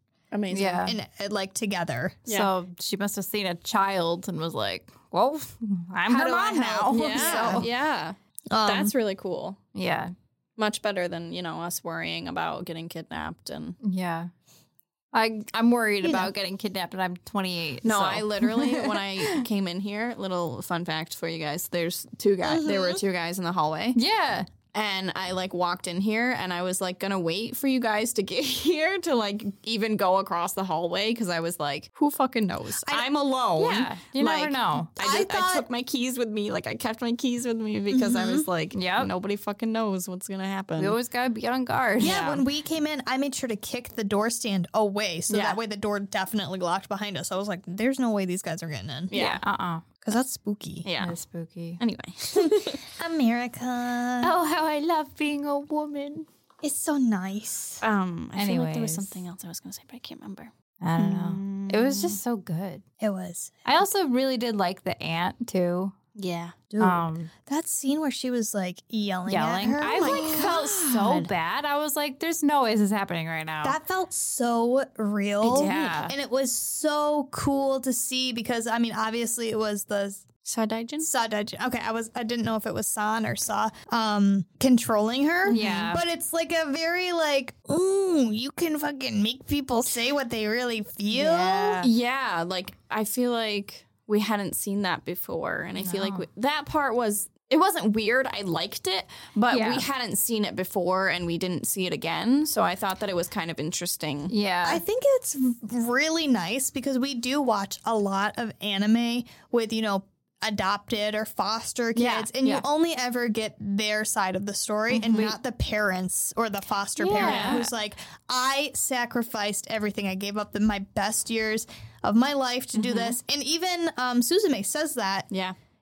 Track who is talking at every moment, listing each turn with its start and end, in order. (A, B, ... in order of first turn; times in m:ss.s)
0:00.3-0:00.9 A
0:00.5-0:01.0 B
0:00.8-0:02.2 C
0:02.2-0:02.5 A
0:02.3-0:07.7 B
0:06.1-0:07.7 C
0:06.9-0:09.6 A
0:08.5-0:08.9 C
0:09.7-0:10.1 B
0:10.6-0:13.8 A
0:13.8-0:14.3 B
0:15.1-0:19.4 B
0:16.0-0:16.3 C
0:17.8-0:24.0 A
0:22.4-0:23.0 C
0:23.9-0:24.5 B
0:24.7-0:41.0 A
0:33.6-0:34.9 B
0:35.0-0:35.6 C
0:37.9-0:38.5 C
0:38.7-0:39.1 B
0:40.8-0:42.2 B
0:42.0-0:49.1 C
0:42.0-0:42.4 A
0:45.3-0:45.6 A
0:49.1-0:49.4 A
0:49.1-0:49.8 B
0:50.0-0:50.9 C
0:50.8-0:51.1 A
0:51.0-0:51.8 B
0:51.8-0:52.8 A
0:52.3-0:54.3 C
0:54.2-0:56.3 B
0:56.6-0:57.8 C
0:57.8-1:02.2 A
0:58.4-0:59.1 B
1:00.8-1:02.8 B
1:03.0-1:03.7 C
1:03.6-1:06.0 B
1:06.1-1:06.6 A
1:06.7-1:10.5 C
1:06.8-1:07.3 B
1:09.3-1:13.8 B
1:10.0-1:11.3 A
1:13.6-1:20.2 C
1:15.4-1:16.1 B
1:15.5-1:16.1 A
1:20.4-1:21.1 A
1:21.0-1:31.8 C
1:25.5-1:25.8 A
1:25.5-1:26.0 B
1:31.1-1:31.9 B
1:31.8-1:44.3 A
1:35.8-1:36.2 B
1:39.5-1:39.8 B
1:44.3-1:44.8 B
1:44.6-2:05.3 C
1:52.0-1:52.6 B
1:54.9-1:55.3 B
1:57.0-1:57.7 B
1:57.1-1:57.7 A
2:02.8-2:03.1 A